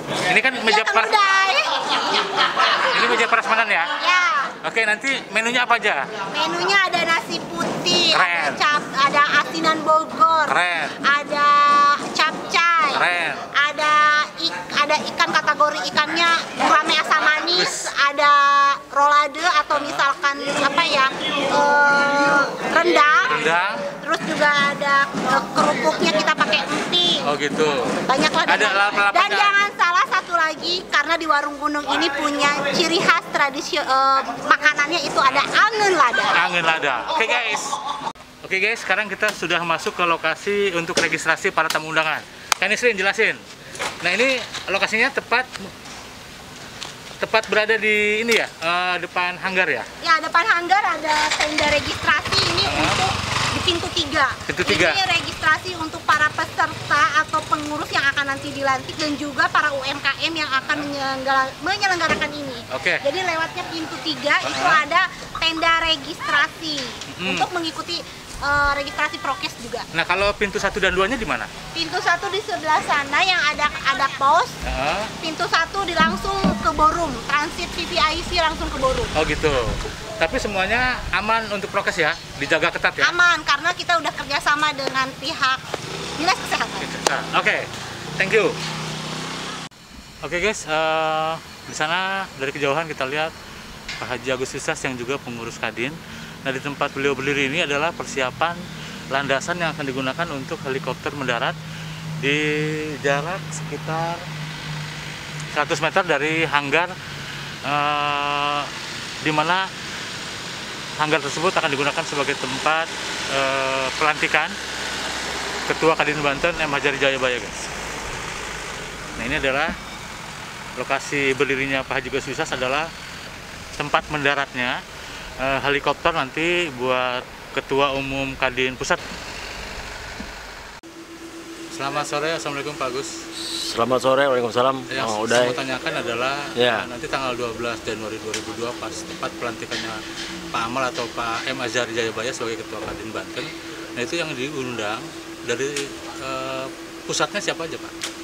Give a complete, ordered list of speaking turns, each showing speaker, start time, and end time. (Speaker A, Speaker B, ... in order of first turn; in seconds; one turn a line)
Speaker A: 0.2-1.2
Speaker B: 0.6-3.2
Speaker A: 2.8-3.9
Speaker B: 3.9-4.5
Speaker A: 4.6-6.1
Speaker B: 6.3-23.4
Speaker A: 8.1-8.6
Speaker A: 10.5-11.0
Speaker A: 12.9-13.4
Speaker A: 17.5-17.9
Speaker A: 19.7-20.1
Speaker A: 23.2-23.8
Speaker B: 24.0-27.3
Speaker A: 27.2-29.6
Speaker B: 28.0-36.4
Speaker A: 35.2-35.5
Speaker A: 36.3-37.8
Speaker A: 38.4-43.4
Speaker A: 44.0-45.5
Speaker A: 47.2-49.9
Speaker B: 50.0-69.9
Speaker A: 52.7-53.0
Speaker A: 54.5-55.0
Speaker A: 62.7-63.0
Speaker A: 64.4-64.8
Speaker A: 67.1-67.5
Speaker A: 69.9-71.5
Speaker B: 71.7-74.5
Speaker A: 74.7-75.1
Speaker B: 75.2-79.1
Speaker A: 79.2-83.2
Speaker B: 83.0-85.6
Speaker B: 86.2-86.9
Speaker A: 86.8-88.6
Speaker A: 90.2-93.3
Speaker A: 94.0-101.6
Speaker A: 102.2-104.3
Speaker A: 105.5-106.9
Speaker A: 107.7-108.7
Speaker A: 109.2-109.7
Speaker A: 111.0-114.5
Speaker A: 115.7-117.7
Speaker A: 119.2-119.7
Speaker A: 120.8-122.9
Speaker A: 123.8-124.8
Speaker A: 125.4-129.0
Speaker A: 131.7-133.1
Speaker C: 133.4-135.6
Speaker A: 134.9-140.0
Speaker C: 136.6-136.9
Speaker A: 140.5-147.9